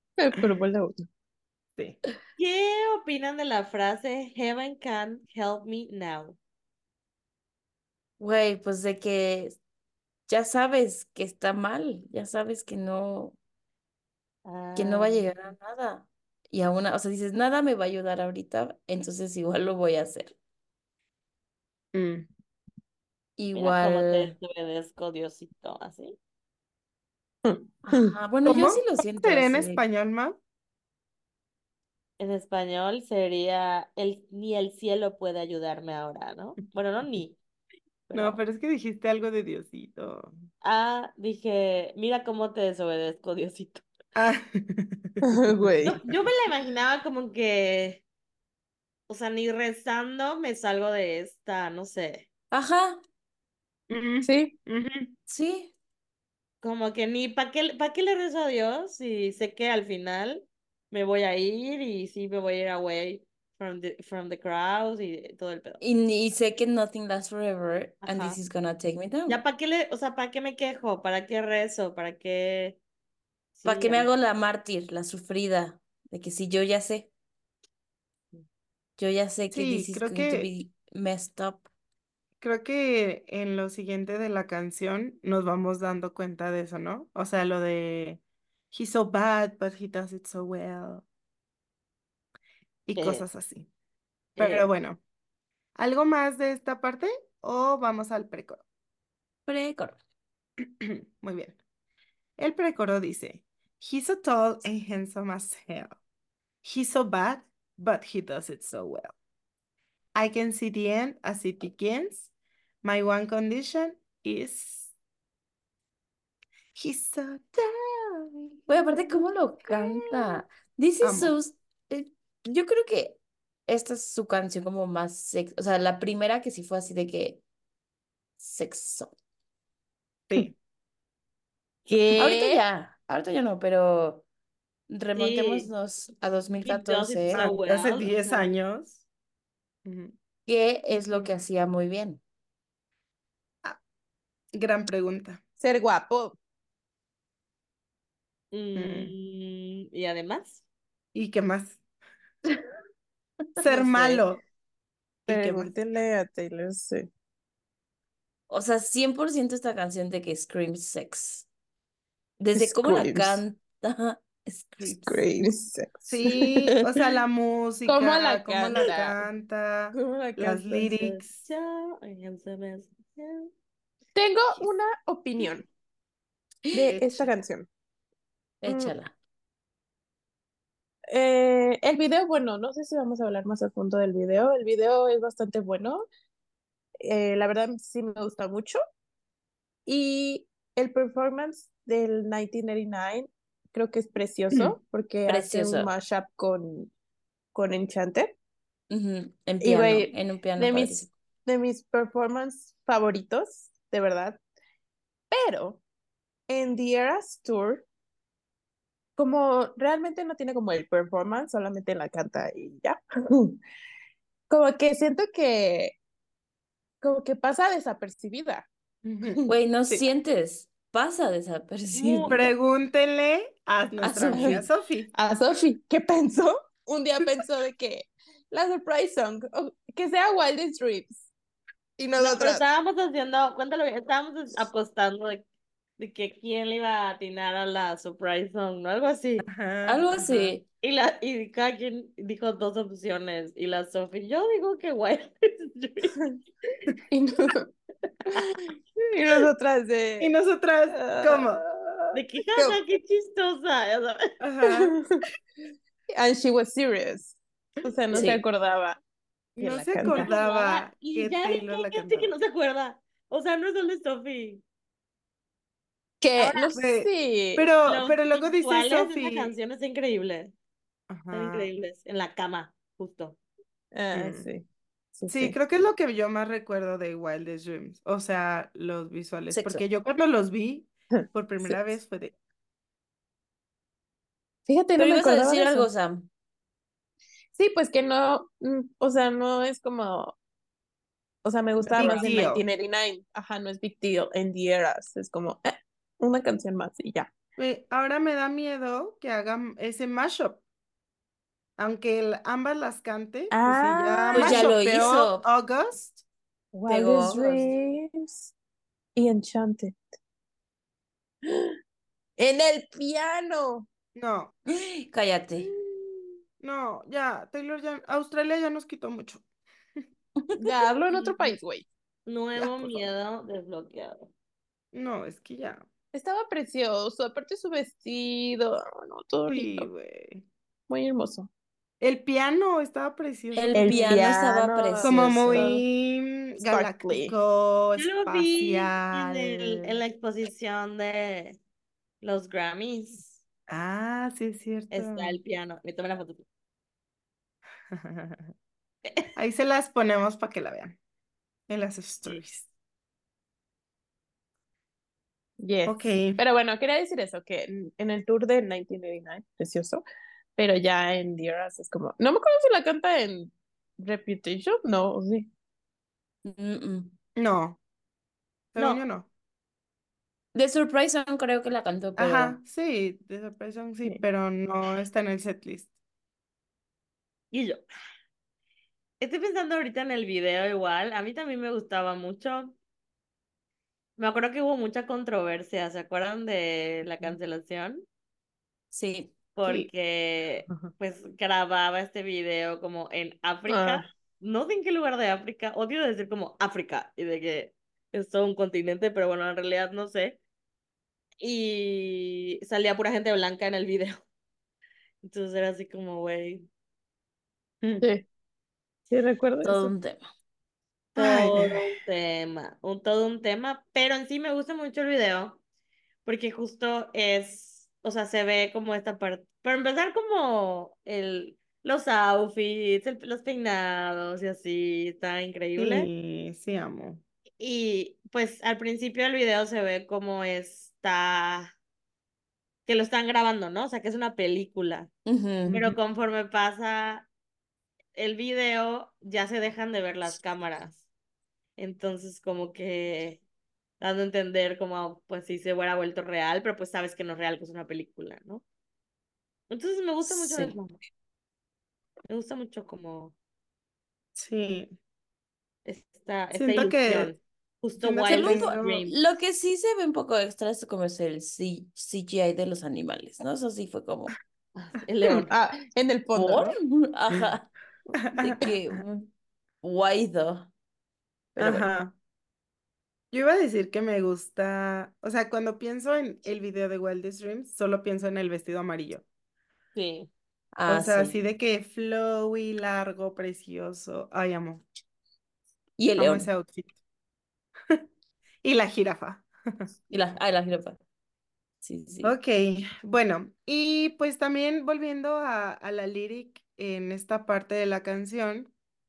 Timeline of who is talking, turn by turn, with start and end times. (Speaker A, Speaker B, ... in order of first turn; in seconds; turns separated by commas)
Speaker A: 0.2-1.0, Speaker B: 2.4-6.4, Speaker C: 8.2-9.6, Speaker C: 10.3-13.3, Speaker B: 14.4-15.3, Speaker C: 14.7-20.4, Speaker D: 21.9-22.3, Speaker C: 23.4-24.4, Speaker B: 23.5-26.2, Speaker A: 27.4-28.1, Speaker C: 27.9-29.8, Speaker D: 28.4-30.4, Speaker B: 32.2-37.4, Speaker B: 38.1-38.4, Speaker D: 38.1-40.3, Speaker B: 40.6-43.8, Speaker D: 44.1-46.2, Speaker A: 45.2-46.0, Speaker B: 45.9-48.0, Speaker B: 49.1-52.3, Speaker C: 52.5-53.0, Speaker D: 53.9-55.1, Speaker A: 54.2-54.5, Speaker C: 55.3-55.7, Speaker B: 56.6-65.8, Speaker C: 65.8-69.4, Speaker B: 68.0-68.4, Speaker B: 69.3-72.8, Speaker B: 73.5-74.1, Speaker C: 73.6-77.1, Speaker C: 79.0-81.7, Speaker D: 79.5-80.5, Speaker D: 82.4-88.2, Speaker D: 88.7-91.0, Speaker D: 92.9-93.7, Speaker B: 92.9-93.2, Speaker B: 94.3-94.7, Speaker D: 94.4-95.0, Speaker D: 95.8-98.6, Speaker C: 99.5-100.0, Speaker D: 100.8-101.6, Speaker D: 102.4-106.0, Speaker D: 106.6-109.1, Speaker D: 110.1-112.3, Speaker D: 112.8-114.9, Speaker D: 116.7-120.4, Speaker C: 118.7-127.4, Speaker D: 121.0-121.3, Speaker C: 128.4-129.1, Speaker D: 130.3-130.5, Speaker B: 131.8-132.6, Speaker C: 132.2-134.2, Speaker C: 134.9-137.4, Speaker B: 135.2-135.7, Speaker B: 136.6-138.5, Speaker D: 137.3-139.0, Speaker D: 139.8-140.1, Speaker C: 140.4-142.2, Speaker D: 144.5-145.4, Speaker A: 145.6-146.3, Speaker B: 148.5-150.6, Speaker D: 148.8-149.1, Speaker D: 151.1-151.8, Speaker D: 153.6-154.4, Speaker B: 153.7-154.2, Speaker D: 155.3-155.7, Speaker A: 155.3-157.1, Speaker C: 158.5-161.5, Speaker C: 162.4-165.2, Speaker A: 162.6-163.4, Speaker A: 165.0-167.0, Speaker D: 166.1-171.4, Speaker A: 167.8-169.2, Speaker A: 169.9-171.0, Speaker B: 171.0-173.5, Speaker A: 174.1-175.7, Speaker C: 176.7-177.0, Speaker A: 176.7-177.7, Speaker D: 176.9-177.2, Speaker C: 178.6-179.1, Speaker A: 178.7-178.9, Speaker A: 181.1-186.0, Speaker A: 187.0-188.8, Speaker A: 189.8-196.9, Speaker C: 195.3-195.9, Speaker A: 197.5-198.3, Speaker C: 198.9-201.1, Speaker A: 199.6-204.4, Speaker A: 205.3-205.8, Speaker A: 206.5-207.9, Speaker A: 209.2-213.6, Speaker A: 214.5-215.9, Speaker A: 217.0-218.7, Speaker D: 219.0-220.1, Speaker A: 219.2-219.5, Speaker C: 219.5-222.5, Speaker B: 221.9-222.4, Speaker D: 222.2-225.1, Speaker C: 224.0-224.7, Speaker A: 224.3-224.6, Speaker A: 225.1-231.3, Speaker A: 232.0-232.6, Speaker B: 232.2-235.4, Speaker B: 236.0-239.5, Speaker D: 239.5-240.5, Speaker C: 239.9-240.6, Speaker B: 240.8-246.1, Speaker A: 247.1-247.7, Speaker A: 248.3-250.3, Speaker D: 250.2-251.6, Speaker A: 250.9-251.6, Speaker B: 252.1-254.3, Speaker D: 254.4-254.9, Speaker A: 254.7-255.2, Speaker A: 256.1-259.0, Speaker C: 258.1-258.4, Speaker D: 259.6-262.3, Speaker A: 259.6-260.3, Speaker B: 260.1-264.6, Speaker A: 266.2-267.7, Speaker B: 266.4-266.8, Speaker D: 266.7-269.5, Speaker B: 267.9-270.5, Speaker D: 271.1-271.7, Speaker B: 271.3-273.4, Speaker A: 273.9-274.6, Speaker D: 274.1-274.5, Speaker A: 275.2-275.6, Speaker D: 275.3-282.4, Speaker C: 279.5-279.8, Speaker A: 281.1-281.7, Speaker A: 284.6-285.9, Speaker C: 285.0-286.3, Speaker A: 287.5-290.4, Speaker A: 291.4-297.3, Speaker D: 291.9-292.6, Speaker B: 291.9-292.5, Speaker D: 297.6-300.6, Speaker D: 301.8-306.2, Speaker A: 303.5-304.8, Speaker C: 304.3-305.4, Speaker A: 306.7-308.5, Speaker C: 306.9-307.7, Speaker A: 309.1-310.0, Speaker A: 311.4-311.7, Speaker A: 312.4-313.9, Speaker D: 314.1-314.6, Speaker C: 314.7-315.7, Speaker D: 315.9-319.4, Speaker C: 320.4-320.7, Speaker A: 320.6-321.9, Speaker B: 321.1-321.5, Speaker B: 322.3-324.3, Speaker D: 322.6-323.1, Speaker D: 324.9-325.9, Speaker A: 326.1-329.9, Speaker D: 329.5-330.4, Speaker A: 330.9-331.5, Speaker D: 332.0-334.3, Speaker C: 333.5-335.8, Speaker B: 333.9-335.2, Speaker D: 335.0-340.0, Speaker A: 336.6-337.3, Speaker B: 338.0-341.6, Speaker B: 342.2-343.4, Speaker D: 343.7-345.4, Speaker B: 344.9-346.4, Speaker D: 347.9-348.5, Speaker D: 349.4-351.0, Speaker D: 351.7-352.7, Speaker A: 355.6-360.0, Speaker D: 355.9-356.4, Speaker A: 360.6-365.5, Speaker C: 366.4-367.1, Speaker D: 367.4-367.8, Speaker D: 368.7-369.3, Speaker B: 368.8-369.0, Speaker C: 370.5-372.6, Speaker D: 372.2-375.9, Speaker B: 377.5-377.8, Speaker B: 379.2-382.8, Speaker B: 384.2-388.0, Speaker C: 388.9-389.3, Speaker B: 389.5-400.4, Speaker D: 389.6-389.9, Speaker A: 393.7-394.0, Speaker B: 401.4-404.2, Speaker B: 405.2-406.7, Speaker A: 409.1-409.9, Speaker C: 409.6-410.2, Speaker D: 411.1-411.9, Speaker B: 411.1-415.6, Speaker B: 416.2-426.1, Speaker D: 425.8-427.2, Speaker B: 427.6-431.7, Speaker B: 432.9-435.1, Speaker C: 435.2-435.8, Speaker D: 435.6-435.9, Speaker B: 435.7-437.3, Speaker B: 438.1-441.0, Speaker B: 441.8-443.4, Speaker B: 444.0-448.6, Speaker B: 449.7-450.9, Speaker C: 450.2-450.8, Speaker B: 452.3-453.3, Speaker D: 454.3-454.9, Speaker B: 455.8-459.1, Speaker D: 456.5-457.3, Speaker D: 458.0-459.1, Speaker C: 458.3-464.3, Speaker B: 464.7-465.5, Speaker A: 465.3-466.8, Speaker B: 466.3-466.8, Speaker C: 466.6-467.7, Speaker D: 468.2-468.7, Speaker C: 468.4-469.3, Speaker C: 469.8-470.7, Speaker D: 471.6-472.1, Speaker C: 471.6-471.8, Speaker D: 473.3-479.2, Speaker B: 479.9-480.3, Speaker C: 480.7-481.4, Speaker D: 480.9-484.8, Speaker C: 486.0-486.5, Speaker D: 486.1-486.9, Speaker D: 488.6-489.5, Speaker C: 490.1-491.0, Speaker C: 491.8-492.3, Speaker D: 492.2-498.7